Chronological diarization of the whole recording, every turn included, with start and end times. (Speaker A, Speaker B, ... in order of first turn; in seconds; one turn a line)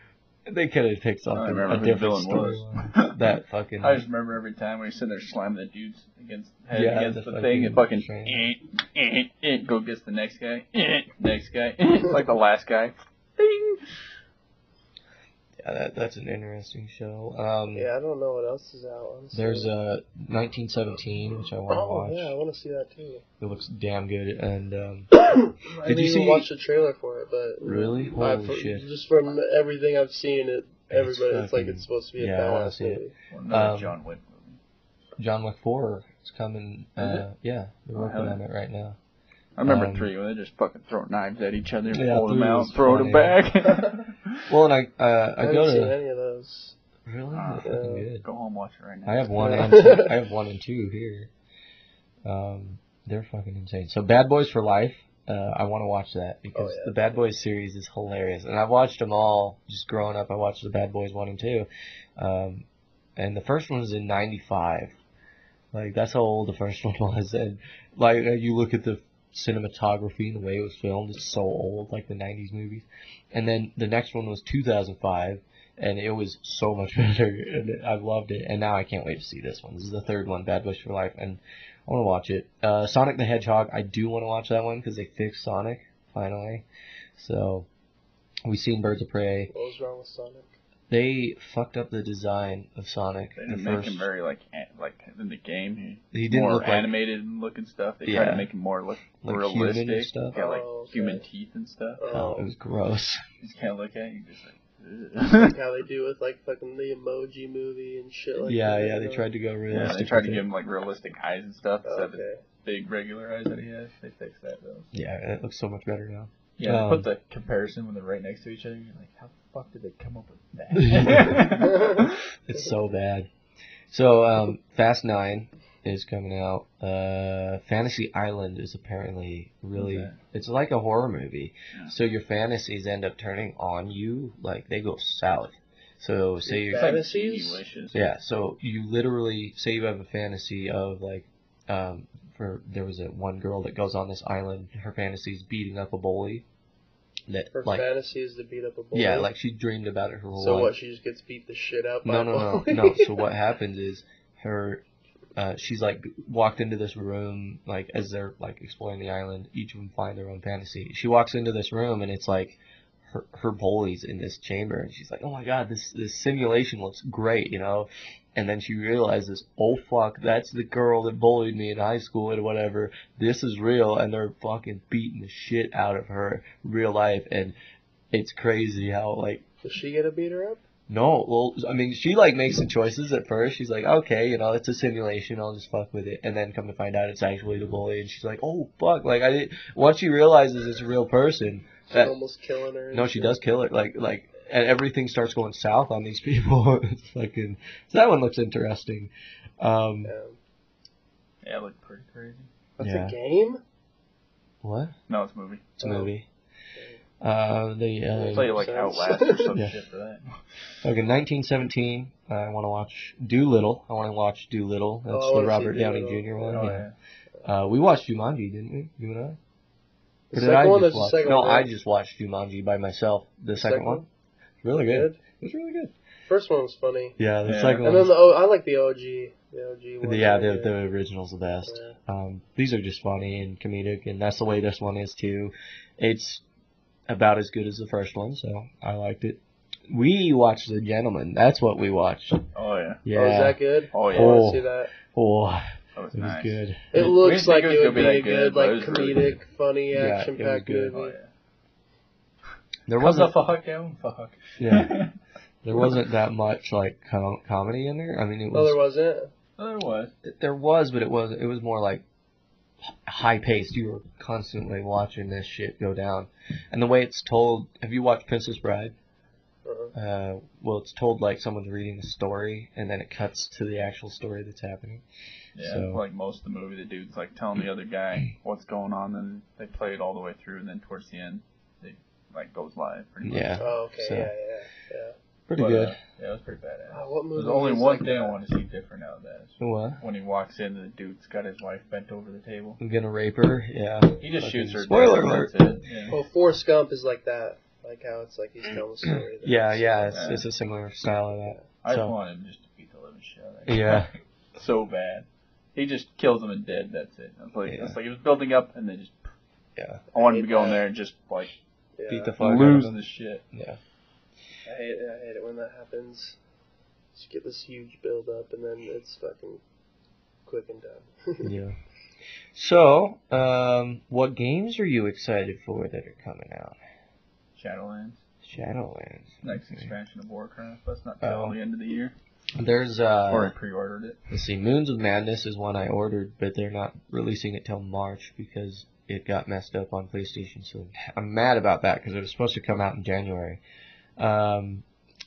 Speaker A: 0.5-4.0
Speaker B: 1.4-3.2
Speaker B: 3.8-14.0
Speaker A: 6.7-8.5
Speaker A: 15.6-17.9
Speaker C: 17.7-19.7
Speaker A: 19.3-22.3
Speaker C: 21.7-23.2
Speaker A: 23.4-25.1
Speaker C: 25.1-33.1
Speaker A: 25.8-26.5
Speaker A: 27.6-28.9
Speaker A: 30.9-34.0
Speaker B: 33.3-34.6
Speaker A: 35.2-39.0
Speaker B: 37.0-37.3
Speaker B: 38.0-38.4
Speaker B: 39.6-44.4
Speaker A: 39.6-40.1
Speaker A: 41.9-43.4
Speaker A: 44.5-46.0
Speaker C: 45.4-46.8
Speaker A: 47.1-48.2
Speaker B: 47.3-49.6
Speaker C: 47.6-48.1
Speaker A: 49.1-51.3
Speaker C: 49.4-50.1
Speaker A: 52.3-62.6
Speaker C: 56.5-57.2
Speaker A: 63.2-65.0
Speaker A: 65.7-86.6
Speaker A: 87.2-87.7
Speaker A: 88.5-89.5
Speaker C: 89.5-90.5
Speaker A: 90.9-94.1
Speaker B: 93.4-102.0
Speaker A: 96.1-96.9
Speaker A: 98.0-98.5
Speaker A: 99.2-100.4
Speaker C: 100.3-101.2
Speaker C: 102.0-102.5
Speaker A: 102.1-103.2
Speaker B: 103.4-105.6
Speaker C: 105.2-109.3
Speaker A: 108.5-110.5
Speaker B: 109.7-114.9
Speaker C: 111.8-112.4
Speaker A: 114.9-117.1
Speaker B: 116.6-122.2
Speaker A: 120.8-121.5
Speaker C: 121.6-122.0
Speaker A: 122.4-123.3
Speaker A: 123.9-137.0
Speaker B: 129.8-130.2
Speaker C: 136.4-137.6
Speaker B: 136.7-138.1
Speaker A: 137.9-146.4
Speaker A: 147.3-147.9
Speaker C: 147.5-149.3
Speaker A: 148.9-150.7
Speaker C: 150.3-153.2
Speaker A: 152.1-154.8
Speaker A: 155.4-177.6
Speaker A: 178.1-179.4
Speaker C: 179.6-180.6
Speaker A: 180.9-192.2
Speaker C: 191.9-193.4
Speaker A: 192.9-200.1
Speaker C: 200.1-200.4
Speaker B: 201.4-202.5
Speaker C: 202.8-203.6
Speaker A: 202.8-203.2
Speaker A: 204.6-204.9
Speaker B: 205.1-205.7
Speaker A: 205.8-206.3
Speaker C: 205.8-206.1
Speaker A: 207.2-208.6
Speaker C: 208.1-209.6
Speaker B: 208.3-210.4
Speaker A: 210.8-216.9
Speaker C: 215.1-216.7
Speaker B: 216.5-216.9
Speaker A: 217.4-219.4
Speaker C: 220.3-221.7
Speaker A: 220.3-224.1
Speaker C: 223.6-224.1
Speaker A: 224.6-225.9
Speaker C: 224.8-225.2
Speaker C: 226.3-227.2
Speaker A: 227.2-228.1
Speaker B: 227.4-228.1
Speaker C: 227.8-230.7
Speaker A: 230.0-236.4
Speaker C: 231.7-232.0
Speaker A: 237.1-242.5
Speaker B: 242.5-243.0
Speaker A: 243.1-246.9
Speaker C: 243.1-244.9
Speaker B: 243.9-244.4
Speaker B: 246.0-249.4
Speaker C: 246.9-251.2
Speaker A: 249.9-251.0
Speaker B: 250.9-251.3
Speaker A: 252.9-253.4
Speaker B: 253.0-255.1
Speaker A: 254.6-255.0
Speaker A: 255.6-258.8
Speaker C: 258.5-259.3
Speaker B: 259.6-260.1
Speaker A: 260.2-262.0
Speaker A: 262.8-268.9
Speaker C: 269.6-269.9
Speaker A: 269.9-275.0
Speaker B: 275.6-283.6
Speaker A: 275.6-276.0
Speaker A: 283.2-284.3
Speaker C: 283.6-285.1
Speaker A: 285.5-286.0
Speaker B: 285.6-292.8
Speaker C: 286.9-288.4
Speaker A: 289.6-290.0
Speaker A: 292.8-295.6
Speaker B: 294.2-296.2
Speaker C: 296.1-300.3
Speaker A: 299.0-302.1
Speaker B: 300.1-300.5
Speaker B: 301.8-309.3
Speaker A: 303.7-304.1
Speaker A: 307.7-308.0
Speaker A: 309.8-310.0
Speaker B: 310.1-311.5
Speaker C: 310.1-310.8
Speaker C: 312.0-312.4
Speaker A: 312.1-313.0
Speaker B: 312.4-313.4
Speaker A: 313.5-313.8
Speaker C: 314.7-316.4
Speaker C: 317.1-319.6
Speaker C: 320.5-321.5
Speaker A: 321.4-321.8
Speaker A: 322.5-326.8
Speaker B: 327.6-328.2
Speaker A: 328.4-329.9
Speaker B: 329.4-332.1
Speaker A: 331.2-331.6
Speaker A: 332.6-333.5
Speaker B: 333.3-334.2
Speaker A: 334.3-343.6
Speaker A: 344.2-344.8